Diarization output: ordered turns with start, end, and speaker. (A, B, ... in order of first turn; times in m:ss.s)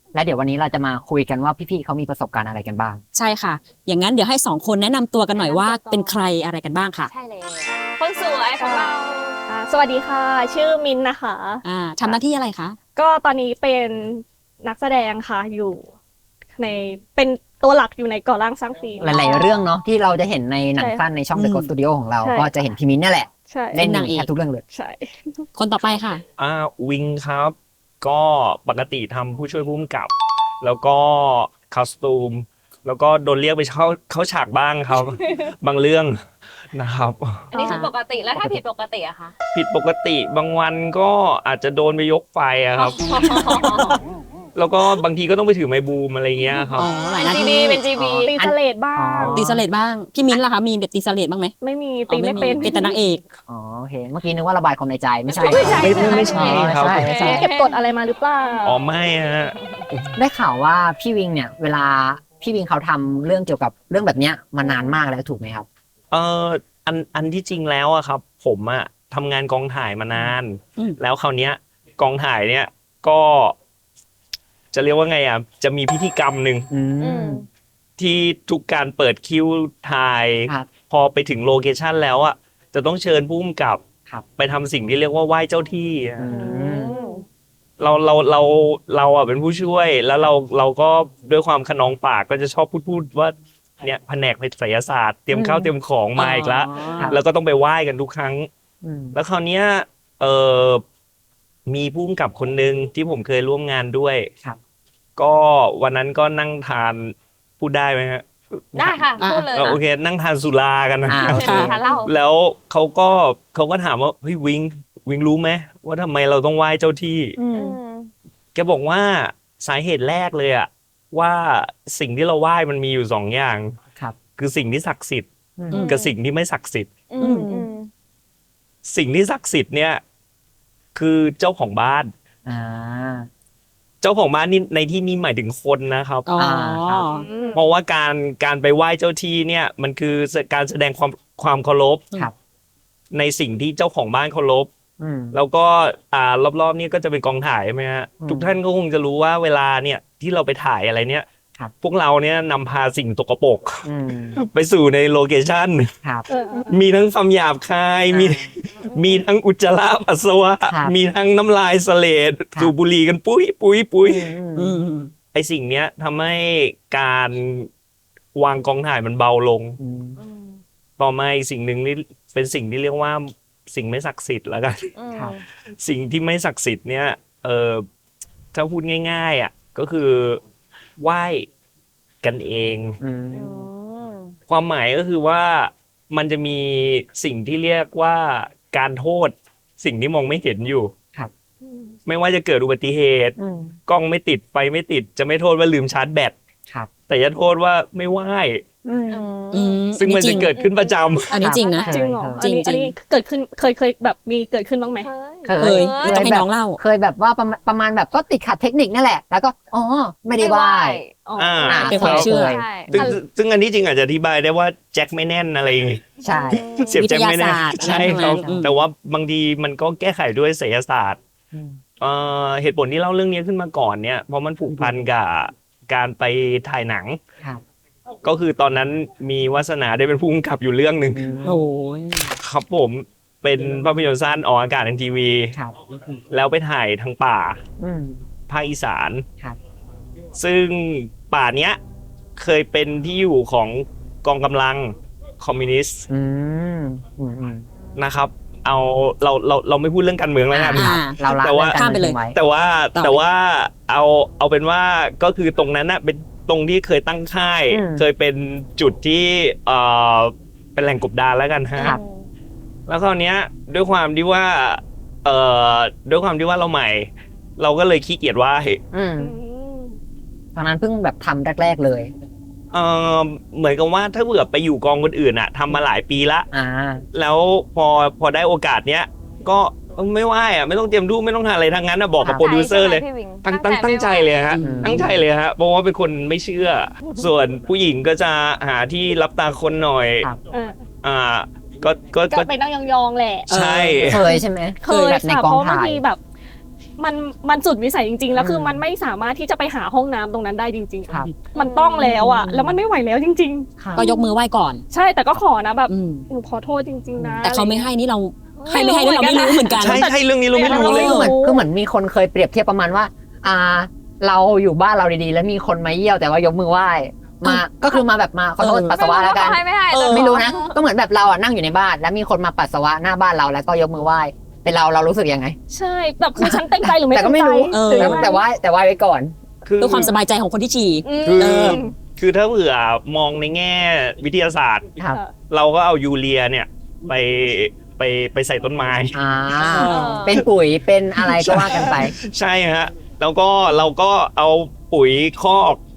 0:00.1-0:03.0 A
0:03.1-0:07.1 B
0:05.4-0:06.1 C
0:07.1-0:09.4 C
0:08.6-0:08.9 D
0:09.5-0:11.6 D
0:11.6-0:12.8 B
0:13.0-0:15.9 D
0:16.6-0:19.5 D
0:19.0-0:24.6 A
0:20.8-0:21.0 D
0:21.3-0:21.7 B
0:22.2-0:22.5 D
0:23.5-0:23.8 D
0:23.7-0:24.3 B
0:24.7-0:25.4 D
0:25.5-0:26.2 B
0:26.4-0:37.7 E
0:37.5-0:39.3 C
0:37.6-0:37.9 B
0:39.5-0:43.0 E
0:42.7-0:44.0 C
0:43.2-0:43.5 B
0:44.5-0:46.9 E
0:46.8-0:47.8 B
0:47.1-0:48.3 C
0:47.9-0:49.6 A
0:48.2-0:49.4 D
0:49.3-0:51.5 B
0:51.6-0:52.9 D
0:52.1-0:53.2 B
0:53.5-0:57.5 A
0:55.4-0:57.8 C
0:55.4-0:57.1 E
0:55.4-0:58.8 D
0:58.6-1:00.1 E
1:00.1-1:05.6 A
1:04.6-1:04.9 C
1:06.1-1:13.6 E
1:14.7-1:16.7 E
1:16.7-1:17.4 A
1:17.0-1:17.5 C
1:18.0-1:23.8 E
1:24.4-1:26.3 E
1:26.2-1:26.9 A
1:26.3-1:27.2 C
1:27.8-1:38.5 E
1:35.3-1:35.7 A
1:36.2-1:37.1 B
1:38.8-1:39.2 A
1:39.1-1:40.8 E
1:41.6-1:44.3 E
1:45.2-1:57.4 E
1:48.7-1:49.8 C
1:49.2-1:49.5 B
1:51.1-1:51.8 A
1:51.2-1:52.1 C
1:51.3-1:51.8 B
1:57.4-1:57.8 A
1:57.4-1:58.1 C
1:58.5-2:03.8 E
2:04.4-2:06.9 E
2:05.6-2:05.8 A
2:05.7-2:06.1 C
2:05.7-2:06.0 B
2:07.1-2:07.9 C
2:07.2-2:07.5 B
2:07.4-2:07.7 A
2:08.8-2:10.0 E
2:10.9-2:12.1 E
2:12.4-2:13.3 A
2:14.0-2:16.3 E
2:16.2-2:17.2 B
2:16.4-2:17.0 A
2:17.1-2:17.6 D
2:17.2-2:17.6 C
2:17.5-2:22.1 E
2:23.1-2:24.7 E
2:25.0-2:25.4 A
2:25.3-2:31.2 E
2:28.2-2:28.6 A
2:31.8-2:35.9 E
2:33.8-2:34.4 A
2:36.3-2:36.8 D
2:36.7-2:44.3 E
2:38.1-2:38.5 A
2:38.8-2:39.2 C
2:40.7-2:40.9 A
2:44.0-2:44.8 A
2:44.5-2:45.1 B
2:45.3-2:47.7 E
2:48.3-2:49.8 E
2:49.8-2:50.2 A
2:50.2-2:50.6 C
2:51.0-2:54.9 E
2:55.0-2:55.4 C
2:55.8-2:57.8 E
2:58.5-3:00.4 E
3:01.0-3:01.5 E
3:02.2-3:03.0 E
3:03.0-3:03.7 A
3:03.3-3:04.3 C
3:04.5-3:10.9 E
3:12.0-3:13.4 E
3:13.4-3:13.8 A
3:13.9-3:16.3 E
3:17.1-3:18.6 E
3:18.8-3:19.2 A
3:19.1-3:21.9 C
3:19.5-3:20.5 B
3:19.9-3:21.3 E
3:21.3-3:22.9 B
3:21.4-3:22.4 A
3:21.9-3:25.1 D
3:25.0-3:26.3 C
3:25.4-3:31.0 A
3:25.6-3:26.8 B
3:30.3-3:31.2 C
3:31.2-3:32.1 D
3:31.4-3:32.4 E
3:31.6-3:33.1 A
3:31.8-3:33.1 B
3:32.4-3:32.9 C
3:32.9-3:41.2 E
3:36.2-3:36.6 A
3:36.3-3:37.0 C
3:36.9-3:38.7 B
3:37.8-3:38.7 A
3:41.5-3:41.8 A
3:42.0-3:47.2 E
3:48.2-3:51.3 E
3:51.1-3:51.6 A
3:51.4-3:52.4 B
3:52.4-3:55.5 E
3:56.3-3:57.6 E
3:57.8-3:58.2 A
3:58.5-3:59.2 E
4:00.4-4:01.8 E
4:02.4-4:06.1 E
4:06.1-4:07.6 A
4:08.0-4:22.0 E
4:10.5-4:12.4 A
4:10.7-4:12.2 B
4:13.0-4:13.2 B
4:17.7-4:18.0 A
4:21.8-4:22.3 C
4:22.9-4:28.8 E
4:28.9-4:29.3 A
4:29.2-4:30.0 D
4:30.5-4:32.1 A
4:32.7-4:36.5 E
4:36.5-4:37.0 A
4:37.1-4:50.3 E
4:42.2-4:42.5 A
4:42.2-4:44.5 C
4:44.5-4:45.1 B
4:44.6-4:45.2 A
4:50.5-4:50.8 D
4:51.0-4:52.5 E
4:52.3-4:53.5 D
4:53.5-4:54.3 B
4:53.5-4:54.2 E
4:54.0-4:56.0 A
4:54.8-4:56.2 D
4:57.0-5:03.7 D
4:58.4-4:58.8 A
5:01.5-5:02.2 C
5:02.0-5:02.8 A
5:03.8-5:04.0 A
5:04.0-5:04.8 B
5:04.9-5:07.8 D
5:05.9-5:06.2 B
5:07.4-5:10.1 B
5:08.6-5:11.6 D
5:09.8-5:11.3 E
5:10.6-5:25.6 A
5:10.7-5:11.3 B
5:18.6-5:19.0 B
5:18.8-5:20.8 C
5:19.9-5:20.4 B
5:25.7-5:28.4 D
5:26.4-5:29.3 A
5:27.7-5:28.4 B
5:29.6-5:30.1 E
5:29.8-5:31.8 B
5:31.0-5:31.9 D
5:31.2-5:39.8 E
5:39.1-5:42.2 A
5:39.6-5:40.4 B
5:39.9-5:40.4 D
5:39.9-5:40.4 C
5:41.2-5:45.8 E